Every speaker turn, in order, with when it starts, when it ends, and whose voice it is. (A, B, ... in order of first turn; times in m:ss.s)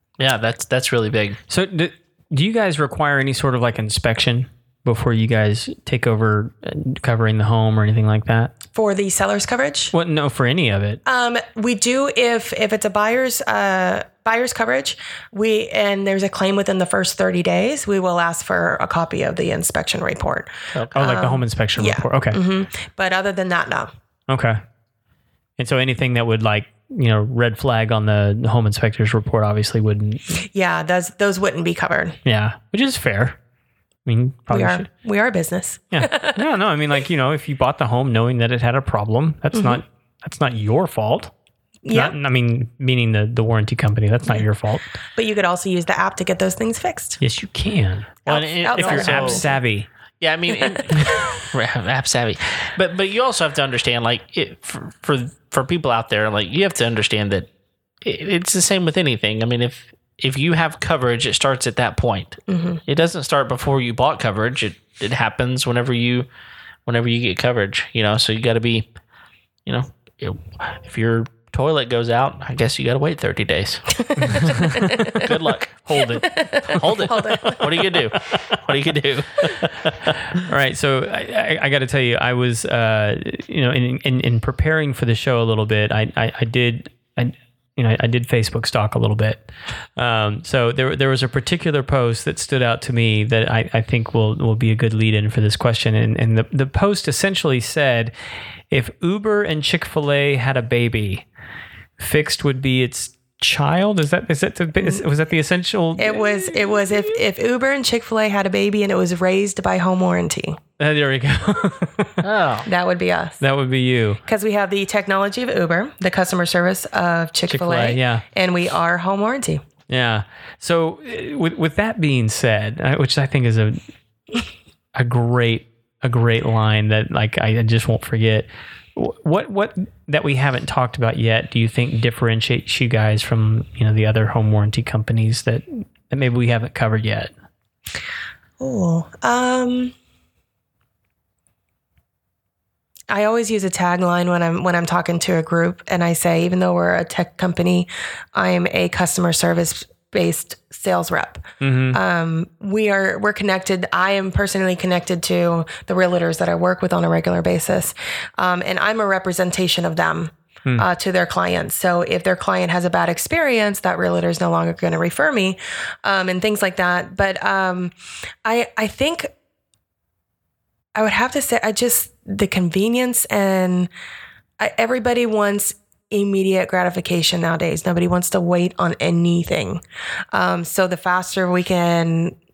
0:00.2-0:01.4 A
0:01.5-0:08.5 B
0:08.7-0:09.9 C
0:09.9-0:11.0 B
0:11.1-0:23.9 C
0:20.8-0:21.0 A
0:21.0-0:22.4 B
0:24.3-0:24.6 B
0:25.6-0:30.2 B
0:30.4-0:32.2 C
0:32.2-0:33.4 B
0:34.1-0:34.9 B
0:34.5-0:36.4 C
0:35.9-0:41.3 B
0:39.5-0:39.8 C
0:41.8-0:42.2 C
0:41.9-0:44.8 B
0:45.2-0:47.2 C
0:47.2-0:48.2 B
0:48.3-0:49.4 A
0:48.3-0:49.6 C
0:48.7-0:49.9 B
0:50.2-0:57.5 A
0:51.0-0:51.3 B
0:58.0-1:06.3 A
1:02.5-1:02.8 C
1:06.9-1:08.9 A
1:09.7-1:14.0 A
1:14.0-1:15.3 C
1:14.2-1:15.3 B
1:15.1-1:16.1 A
1:15.8-1:17.0 B
1:16.0-1:17.9 C
1:16.7-1:20.2 A
1:20.4-1:38.1 B
1:38.7-1:41.3 B
1:42.0-1:47.2 B
1:46.0-1:50.6 C
1:50.8-1:52.2 B
1:52.2-1:52.7 A
1:52.6-1:53.4 C
1:53.4-1:54.2 B
1:54.3-1:59.6 C
1:57.5-1:58.2 B
1:59.9-2:03.8 B
2:05.0-2:17.3 B
2:18.6-2:20.0 C
2:23.1-2:47.9 C
2:31.6-2:32.0 B
2:48.4-2:49.3 C
2:51.0-2:53.9 C
2:54.6-3:02.4 C